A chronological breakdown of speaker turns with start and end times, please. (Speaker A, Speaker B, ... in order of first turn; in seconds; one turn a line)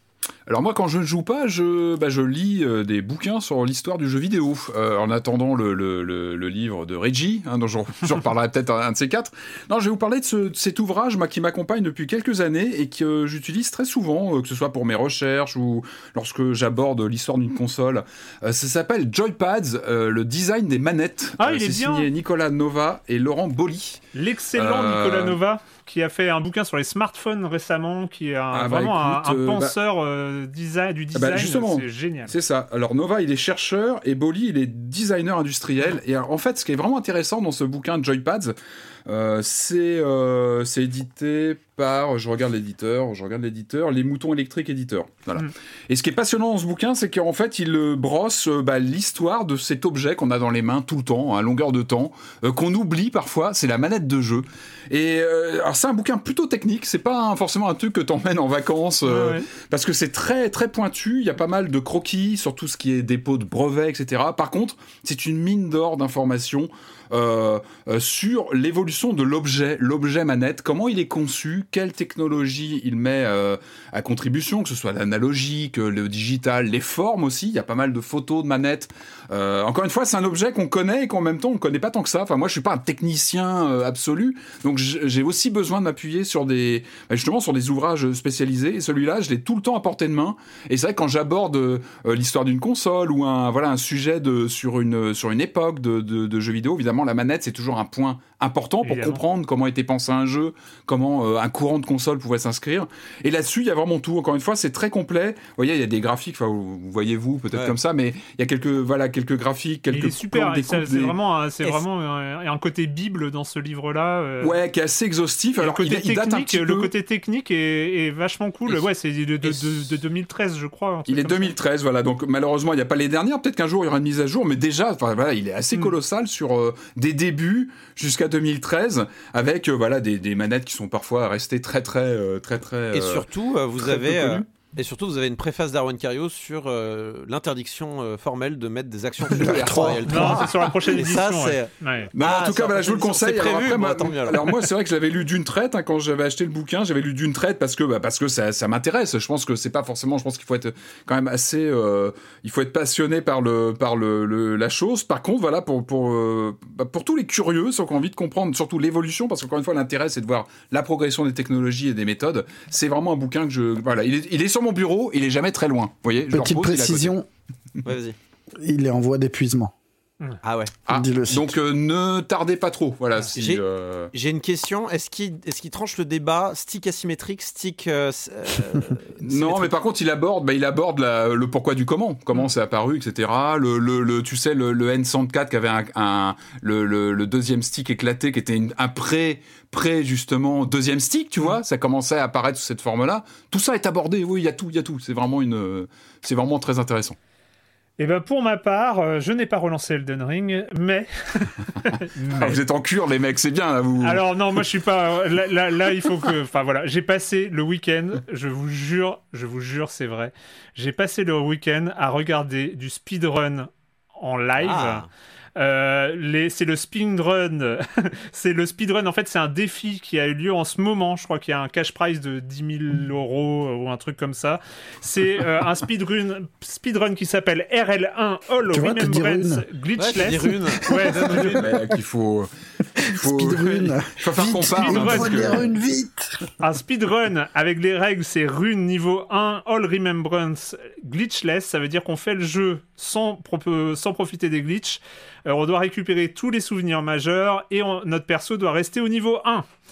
Speaker A: 0.5-24.0
Speaker B: 21.4-22.1
Speaker B: 24.1-32.3
Speaker A: 24.6-25.4
Speaker A: 28.5-29.7
Speaker A: 31.1-111.2
Speaker B: 59.0-59.5
Speaker B: 98.8-99.2
Speaker B: 109.9-114.5
Speaker A: 114.4-116.9
Speaker B: 115.6-121.5
Speaker A: 121.1-134.4
Speaker C: 132.9-144.7
Speaker D: 139.3-140.5
Speaker A: 139.4-140.2
Speaker B: 140.1-142.1
Speaker A: 142.2-167.2
Speaker D: 166.3-167.3
Speaker C: 167.8-168.2
Speaker D: 168.6-169.7
Speaker C: 170.4-170.7
Speaker A: 170.9-174.1
Speaker D: 170.9-171.6
Speaker C: 173.3-179.7
Speaker A: 179.2-197.2
Speaker B: 198.0-202.6
Speaker A: 202.3-204.2
Speaker B: 204.0-215.1
Speaker C: 214.6-215.1
Speaker B: 215.6-231.6
Speaker D: 228.7-229.7
Speaker C: 230.0-231.7
Speaker D: 230.9-231.6
Speaker A: 231.6-235.7
Speaker D: 233.0-236.5
Speaker B: 234.8-235.6
Speaker B: 236.6-249.7